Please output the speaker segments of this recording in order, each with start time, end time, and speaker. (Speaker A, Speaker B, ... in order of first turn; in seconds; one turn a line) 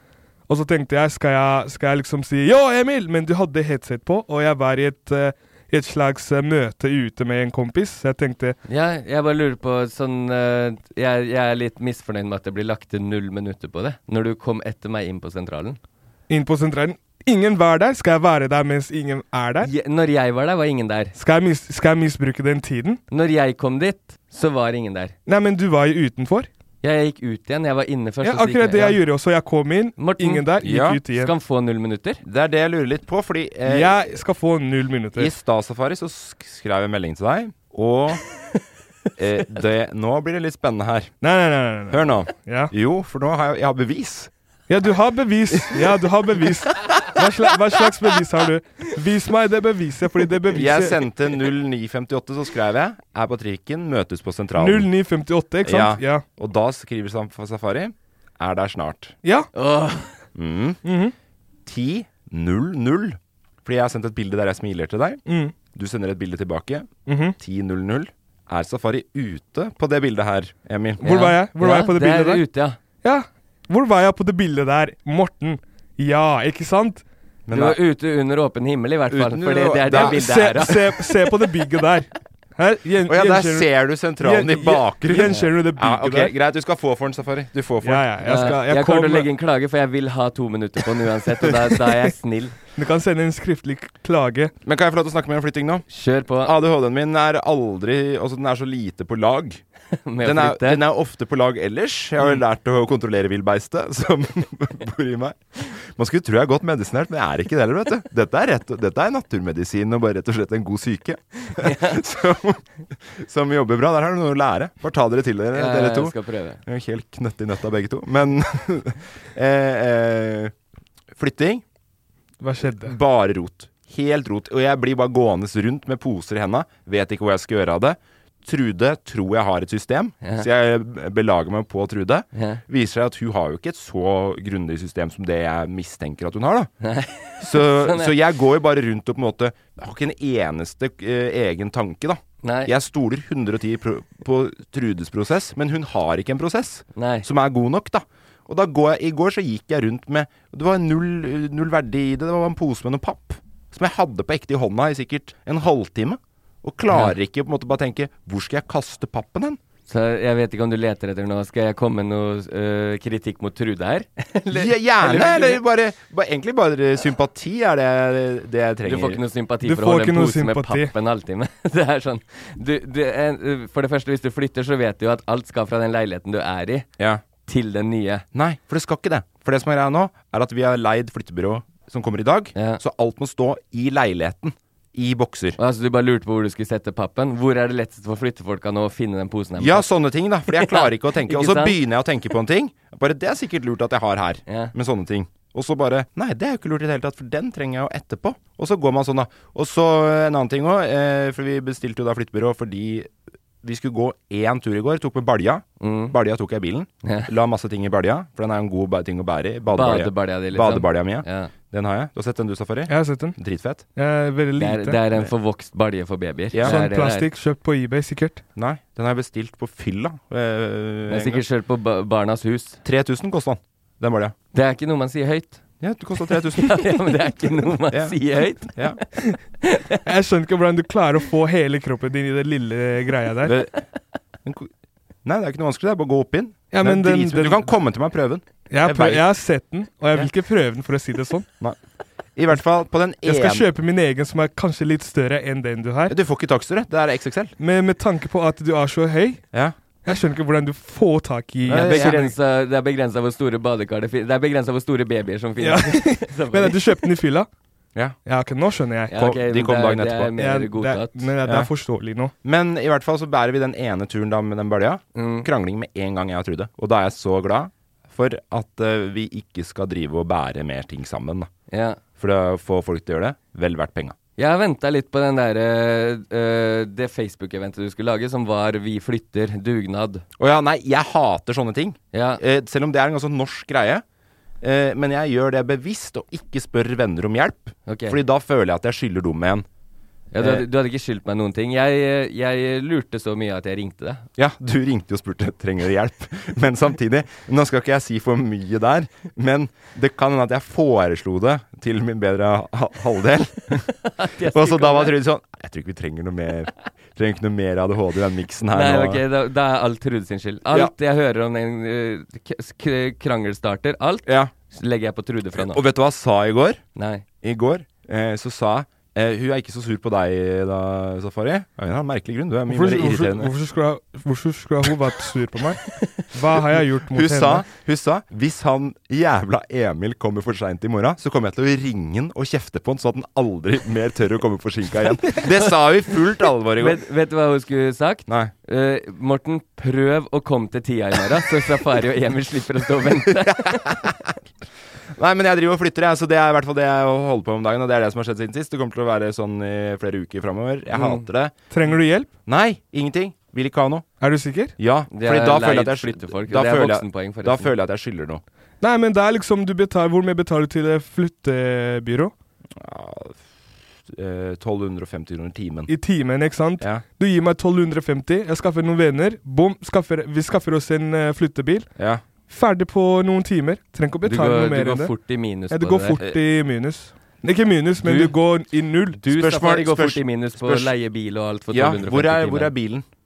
Speaker A: 0.5-8.6
Speaker B: 8.7-15.8
Speaker A: 16.3-19.7
Speaker B: 19.6-21.1
Speaker A: 21.1-23.0
Speaker B: 23.1-25.1
Speaker A: 25.3-26.5
Speaker B: 26.8-29.0
Speaker A: 28.2-31.3
Speaker B: 30.0-30.6
Speaker C: 30.6-31.0
Speaker B: 31.1-32.2
Speaker C: 32.2-34.1
Speaker A: 33.6-35.3
Speaker C: 35.1-38.2
Speaker C: 39.2-41.1
Speaker A: 41.2-42.7
Speaker C: 41.9-44.3
Speaker A: 44.7-51.0
Speaker C: 50.5-54.9
Speaker A: 54.6-56.2
Speaker C: 55.6-59.1
Speaker A: 59.2-59.5
Speaker B: 59.5-60.2
Speaker C: 60.3-60.8
Speaker A: 60.8-61.1
Speaker C: 61.6-65.2
Speaker A: 65.2-65.5
Speaker C: 65.7-66.9
Speaker A: 67.1-67.3
Speaker C: 67.4-71.0
Speaker A: 71.0-72.4
Speaker B: 71.0-72.8
Speaker A: 73.0-77.0
Speaker C: 77.5-77.8
Speaker B: 77.5-81.0
Speaker C: 79.1-80.6
Speaker A: 79.9-86.3
Speaker C: 83.1-88.1
Speaker A: 87.8-89.3
Speaker B: 88.2-92.6
Speaker A: 92.8-94.5
Speaker C: 94.6-95.8
Speaker B: 95.9-96.5
Speaker C: 96.4-99.6
Speaker B: 100.0-100.8
Speaker C: 100.2-120.5
Speaker B: 111.5-112.0
Speaker B: 115.5-116.6
Speaker C: 121.1-121.6
Speaker A: 122.4-123.0
Speaker C: 122.6-136.7
Speaker B: 130.2-130.5
Speaker B: 132.3-132.6
Speaker B: 136.8-138.2
Speaker C: 137.4-159.6
Speaker B: 142.4-142.7
Speaker B: 146.9-147.3
Speaker B: 156.9-157.1
Speaker B: 159.9-165.6
Speaker C: 164.5-169.2
Speaker B: 168.8-176.9
Speaker A: 169.7-170.9
Speaker B: 177.4-178.2
Speaker C: 178.3-185.6
Speaker B: 182.6-182.8
Speaker B: 185.6-189.9
Speaker C: 189.6-203.1
Speaker B: 190.5-191.8
Speaker B: 194.5-194.7
Speaker C: 203.6-213.8
Speaker B: 205.8-206.1
Speaker B: 207.0-207.3
Speaker B: 209.7-211.5
Speaker A: 212.9-213.4
Speaker A: 213.9-215.0
Speaker B: 214.6-217.3
Speaker C: 216.5-216.8
Speaker A: 216.6-218.4
Speaker C: 218.6-221.4
Speaker B: 221.1-222.8
Speaker C: 222.8-224.3
Speaker B: 224.5-225.6
Speaker C: 225.8-226.8
Speaker B: 226.5-229.0
Speaker C: 227.9-228.2
Speaker C: 228.7-229.0
Speaker B: 229.6-230.0
Speaker A: 230.0-233.5
Speaker C: 233.4-233.8
Speaker C: 234.4-234.7
Speaker C: 235.2-239.3
Speaker A: 236.7-237.7
Speaker A: 238.7-241.4
Speaker C: 242.3-243.7
Speaker A: 243.2-246.1
Speaker C: 246.1-247.5
Speaker A: 247.6-249.4
Speaker A: 250.0-252.3
Speaker C: 251.7-252.2
Speaker B: 251.7-257.0
Speaker A: 255.6-257.5
Speaker A: 258.2-259.1
Speaker B: 259.1-261.3
Speaker C: 259.1-260.3
Speaker A: 260.4-262.3
Speaker C: 261.4-261.7
Speaker C: 262.4-271.5
Speaker B: 265.1-265.5
Speaker B: 271.7-272.0
Speaker C: 272.2-274.1
Speaker B: 274.4-280.2
Speaker C: 280.4-284.0
Speaker B: 282.1-282.4
Speaker C: 284.6-289.7
Speaker B: 287.9-288.2
Speaker B: 290.3-294.2
Speaker C: 290.4-290.6
Speaker C: 294.4-303.8
Speaker B: 304.1-305.2
Speaker C: 304.4-309.2
Speaker B: 308.7-315.8
Speaker C: 314.2-314.5
Speaker C: 315.6-316.8
Speaker B: 316.9-317.2
Speaker C: 317.4-323.5
Speaker A: 322.7-327.6
Speaker C: 327.1-337.0
Speaker B: 335.3-335.8
Speaker B: 336.8-344.0
Speaker C: 343.4-344.1
Speaker C: 345.1-351.5
Speaker B: 350.9-351.2
Speaker A: 351.7-352.3
Speaker C: 352.5-354.1
Speaker A: 354.2-354.7
Speaker C: 354.8-358.4
Speaker B: 355.1-357.7
Speaker A: 358.8-362.3
Speaker C: 362.7-363.5
Speaker C: 364.0-365.9
Speaker A: 365.9-371.9
Speaker C: 372.0-372.2
Speaker A: 372.5-375.1
Speaker B: 374.2-376.2
Speaker A: 375.7-379.2
Speaker B: 378.0-378.4
Speaker B: 379.2-382.7
Speaker C: 379.2-380.9
Speaker C: 381.7-383.1